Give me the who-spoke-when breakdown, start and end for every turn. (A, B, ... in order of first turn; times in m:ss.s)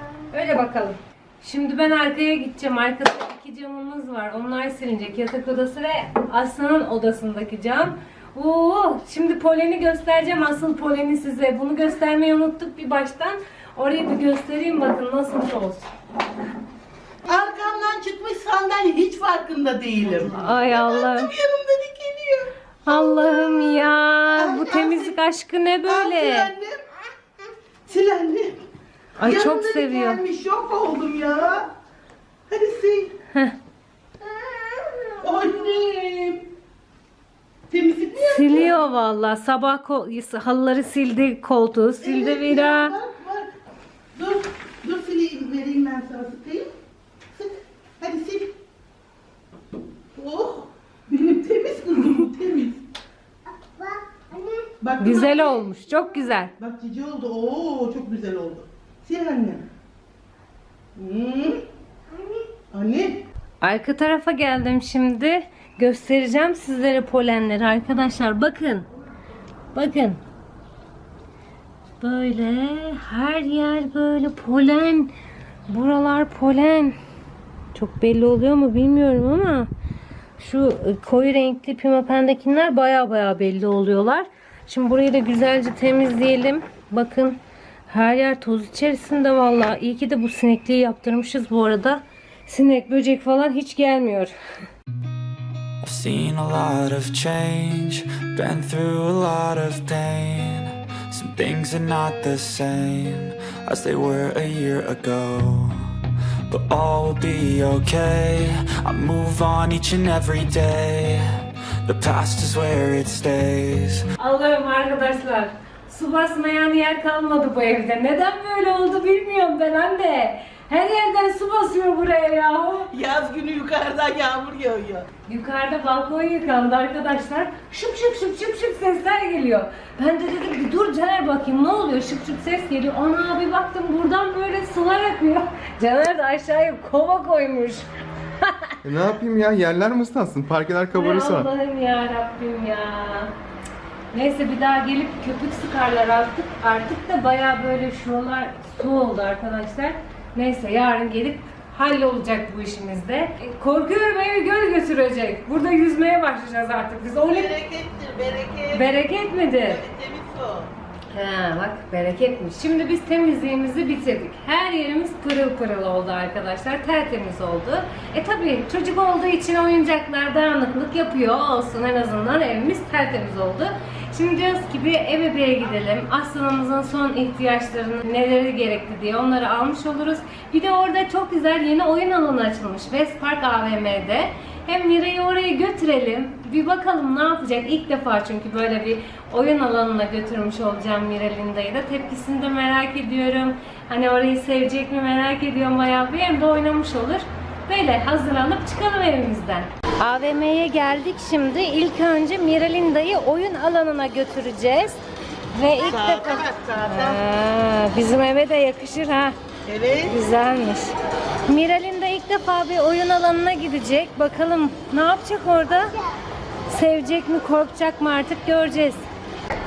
0:00.3-0:15.9 A
0:17.2-0:25.2 B
0:20.1-0:21.3 A
0:22.8-0:26.5 A
0:25.8-0:26.8 B
0:27.8-0:28.6 B
0:29.2-0:30.2 A
0:29.2-0:31.7 B
0:32.5-0:33.1 B
0:34.2-0:35.7 C
0:35.2-0:36.5 B
0:37.7-0:38.8 B
0:38.2-0:43.0 A
0:42.0-0:43.5 B
0:44.1-0:46.7 B
0:47.3-0:48.5 B
0:50.1-0:52.8 B
0:53.6-0:54.6 C
0:54.8-0:55.7 B
0:55.0-0:56.5 A
0:56.5-0:59.6 B
1:01.0-1:01.6 B
1:02.1-1:02.4 C
1:02.7-1:03.2 B
1:03.6-1:08.9 A
1:09.7-1:10.2 A
1:12.0-1:15.1 A
1:15.7-1:17.0 A
1:17.7-1:19.7 A
1:20.4-1:34.3 A
1:35.8-1:45.8 D
1:46.5-1:54.0 D
1:54.2-2:02.9 A
2:02.9-2:05.1 B
2:05.3-2:17.9 A
2:18.4-2:18.8 A
2:18.8-2:21.5 E
2:20.9-2:23.3 A
2:24.1-2:37.5 A
2:37.2-2:39.0 B
2:38.7-2:39.8 A
2:39.6-2:40.7 B
2:41.1-3:25.0 A
3:25.5-3:29.3 A
3:25.8-3:27.2 B
3:29.6-3:30.2 B
3:30.0-3:30.9 A
3:31.5-3:35.9 A
3:36.7-3:39.1 A